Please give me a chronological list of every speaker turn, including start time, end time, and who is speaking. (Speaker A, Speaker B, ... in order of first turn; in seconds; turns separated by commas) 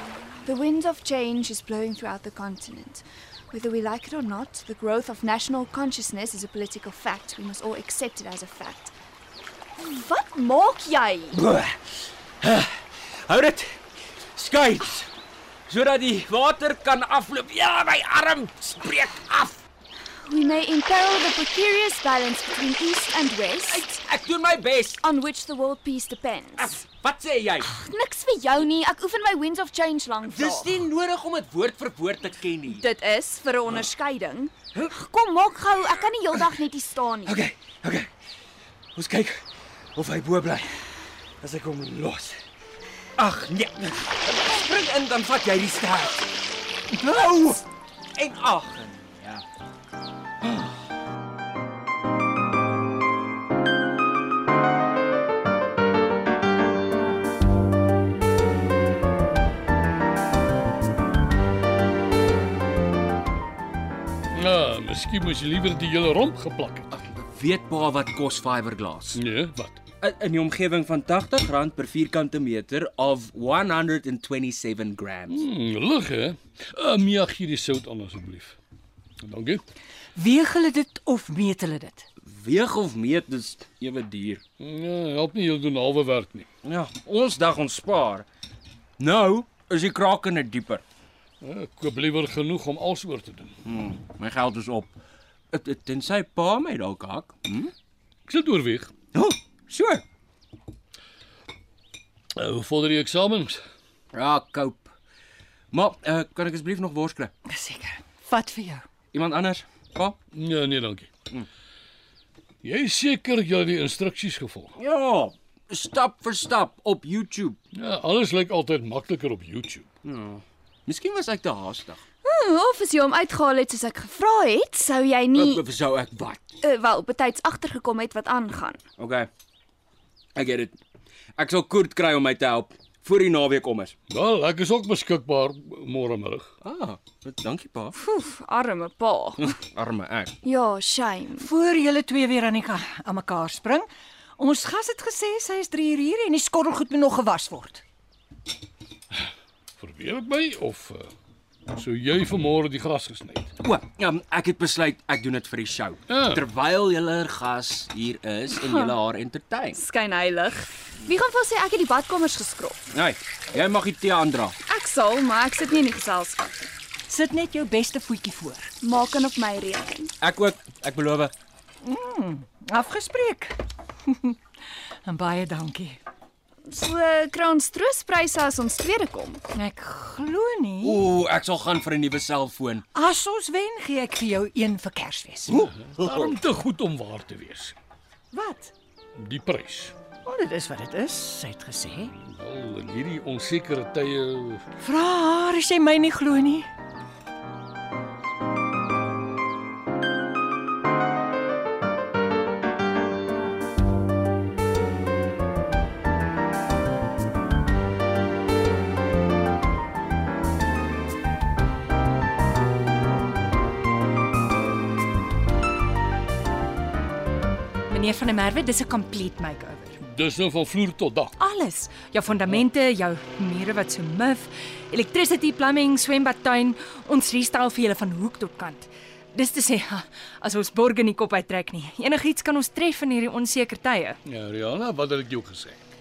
Speaker A: 0.5-8.9, Speaker A: 9.8-11.4, Speaker B: 11.3-13.8, Speaker B: 14.3-15.1, Speaker B: 15.7-19.6, Speaker A: 20.2-23.9, Speaker B: 23.7-25.0, Speaker A: 25.0-26.8, Speaker B: 26.6-27.7, Speaker A: 27.6-30.8, Speaker B: 30.2-32.9, Speaker A: 32.7-37.4, Speaker B: 36.3-36.6, Speaker B: 37.3-38.1, Speaker B: 39.0-42.4, Speaker B: 43.2-46.4, Speaker B: 46.9-47.6, Speaker B: 48.2-49.5, Speaker B: 50.4-50.7, Speaker C: 64.3-66.9, Speaker B: 66.9-69.2, Speaker C: 69.2-69.8, Speaker B: 70.0-75.4, Speaker C: 75.3-78.6, Speaker C: 79.2-79.6, Speaker D: 80.2-82.1, Speaker B: 82.2-84.4, Speaker C: 84.6-86.5, Speaker B: 86.6-88.3, Speaker B: 89.0-90.8, Speaker C: 91.4-93.5, Speaker B: 93.7-95.0, Speaker B: 95.5-97.7, Speaker C: 98.3-98.9, Speaker B: 99.1-100.0, Speaker C: 102.4-103.6, Speaker B: 104.1-104.9, Speaker B: 105.7-107.3, Speaker D: 107.5-108.9, Speaker B: 109.1-110.2, Speaker C: 110.3-111.1, Speaker C: 112.6-114.7, Speaker B: 114.8-117.6, Speaker C: 117.8-119.8, Speaker B: 120.0-122.0, Speaker A: 122.2-125.7, Speaker B: 125.3-126.5, Speaker A: 126.6-128.8, Speaker B: 129.0-129.3, Speaker B: 130.3-130.8, Speaker B: 131.4-133.9, Speaker C: 134.1-136.5, Speaker B: 136.6-138.0, Speaker A: 138.0-139.5, Speaker B: 139.4-140.4, Speaker A: 140.4-141.5, Speaker D: 141.4-147.8, Speaker C: 149.8-151.1, Speaker C: 151.7-153.5, Speaker B: 153.6-159.8, Speaker C: 156.1-156.4, Speaker A: 158.5-159.0, Speaker A: 159.8-162.8, Speaker B: 162.9-164.6, Speaker A: 164.7-166.5, Speaker D: 167.1-168.7, Speaker A: 168.8-170.1, Speaker B: 170.2-171.3, Speaker D: 171.8-174.4, Speaker D: 175.1-176.0, Speaker A: 176.7-179.4, Speaker D: 179.5-181.1, Speaker B: 180.8-182.8, Speaker D: 182.9-185.7, Speaker B: 185.5-186.3, Speaker C: 185.8-187.8, Speaker D: 188.3-188.7, Speaker C: 189.2-189.9, Speaker D: 190.2-192.2, Speaker C: 192.2-194.6, Speaker D: 194.8-196.7, Speaker E: 217.9-220.0, Speaker C: 220.0-221.3, Speaker E: 221.4-234.2, Speaker C: 234.3-235.8